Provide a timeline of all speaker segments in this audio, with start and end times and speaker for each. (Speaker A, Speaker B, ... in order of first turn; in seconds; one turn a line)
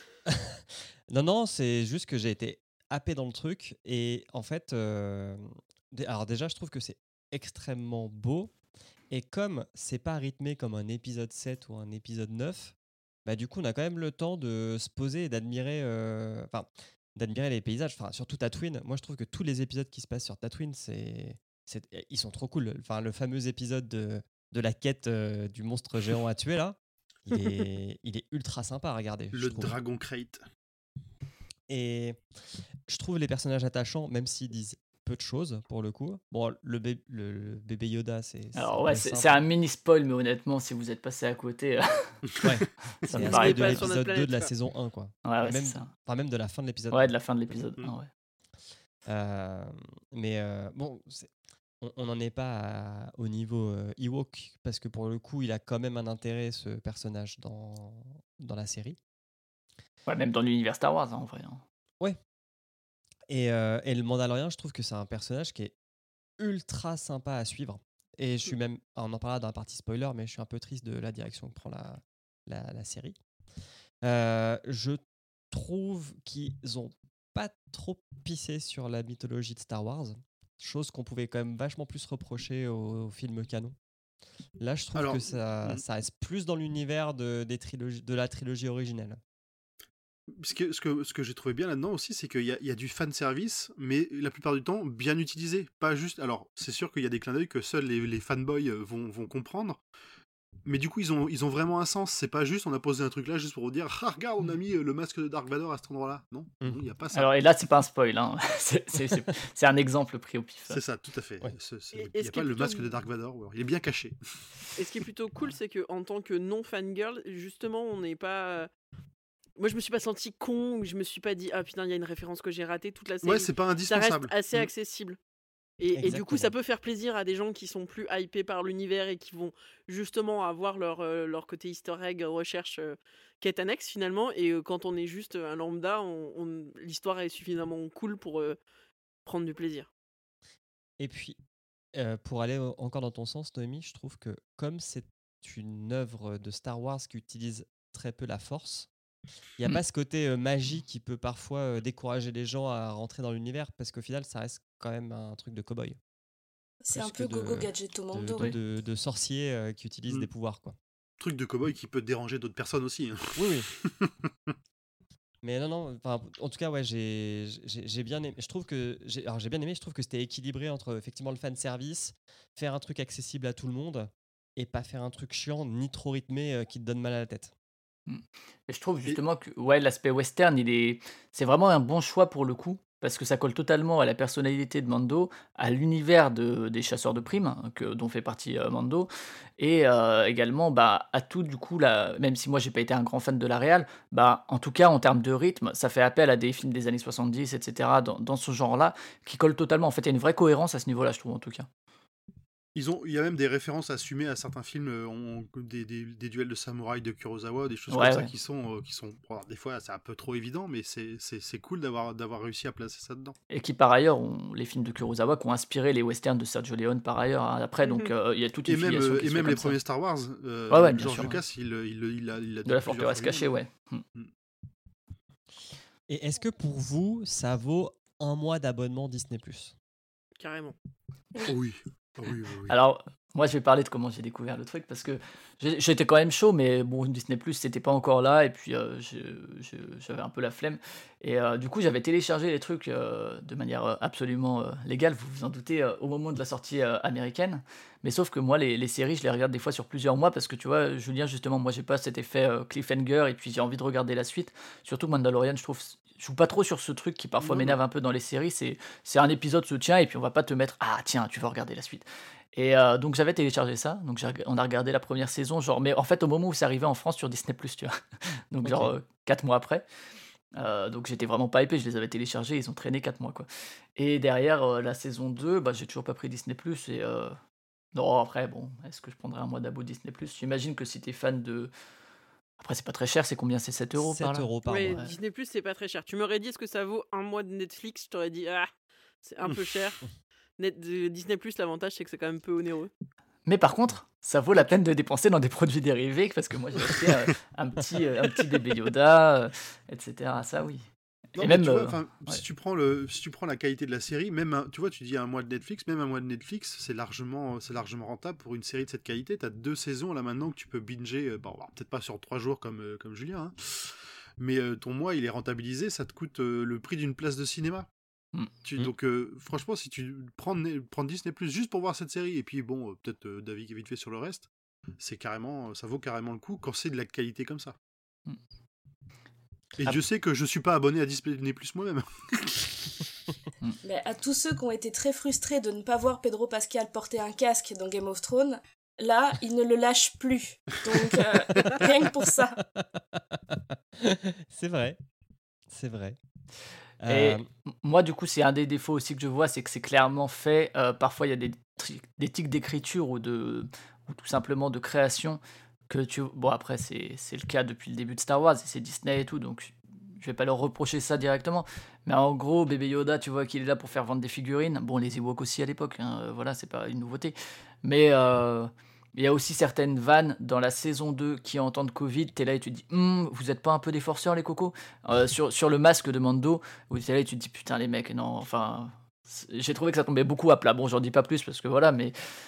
Speaker A: 0.3-8.5
Speaker A: 9.1-29.8
Speaker B: 29.3-30.4
Speaker A: 31.7-32.2
Speaker A: 32.9-39.4
Speaker C: 38.5-42.3
Speaker B: 42.3-42.6
Speaker A: 42.4-47.5
Speaker C: 43.0-43.9
Speaker D: 43.2-44.5
Speaker C: 45.2-45.9
Speaker C: 46.9-48.1
Speaker A: 49.1-59.0
Speaker C: 60.1-61.6
Speaker A: 63.3-65.7
Speaker A: 66.4-73.2
Speaker A: 74.0-75.0
Speaker A: 75.5-83.8
Speaker A: 84.6-89.2
Speaker B: 85.0-85.8
Speaker B: 90.3-99.8
Speaker B: 100.7-107.3
Speaker C: 107.1-110.8
Speaker B: 110.7-114.2
Speaker D: 111.9-112.9
Speaker D: 114.8-118.7
Speaker D: 119.6-125.2
Speaker B: 123.2-124.7
Speaker D: 125.8-138.6
Speaker A: 126.0-126.5
Speaker D: 139.3-139.9
Speaker A: 141.0-141.4
Speaker A: 141.9-148.9
Speaker A: 149.6-156.0
Speaker E: 156.8-158.5
Speaker A: 156.9-160.8
Speaker B: 161.2-164.3
Speaker A: 163.4-163.7
Speaker A: 165.4-177.5
Speaker C: 178.1-201.7
Speaker B: 202.8-213.3
Speaker C: 207.9-208.3
Speaker C: 213.5-219.8
Speaker D: 217.8-218.1
Speaker B: 218.7-223.5
Speaker C: 220.7-221.4
Speaker C: 222.7-224.0
Speaker A: 226.1-229.8
Speaker D: 230.4-230.8
Speaker B: 231.5-232.8
Speaker C: 232.7-267.9
Speaker B: 257.4-257.8
Speaker C: 268.5-269.9
Speaker A: 268.6-268.9
Speaker C: 270.5-277.4
Speaker C: 277.9-281.7
Speaker C: 282.6-285.1
Speaker A: 284.0-285.1
Speaker D: 284.7-288.7
Speaker D: 289.2-290.0
Speaker D: 290.6-292.9
Speaker C: 293.4-300.9
Speaker B: 301.4-317.9
Speaker C: 301.4-302.4
Speaker C: 318.3-318.9
Speaker B: 318.6-327.8
Speaker B: 329.8-332.9
Speaker E: 333.8-342.6
Speaker A: 342.7-345.0
Speaker A: 345.7-346.2
Speaker A: 347.0-347.4
Speaker C: 347.1-382.1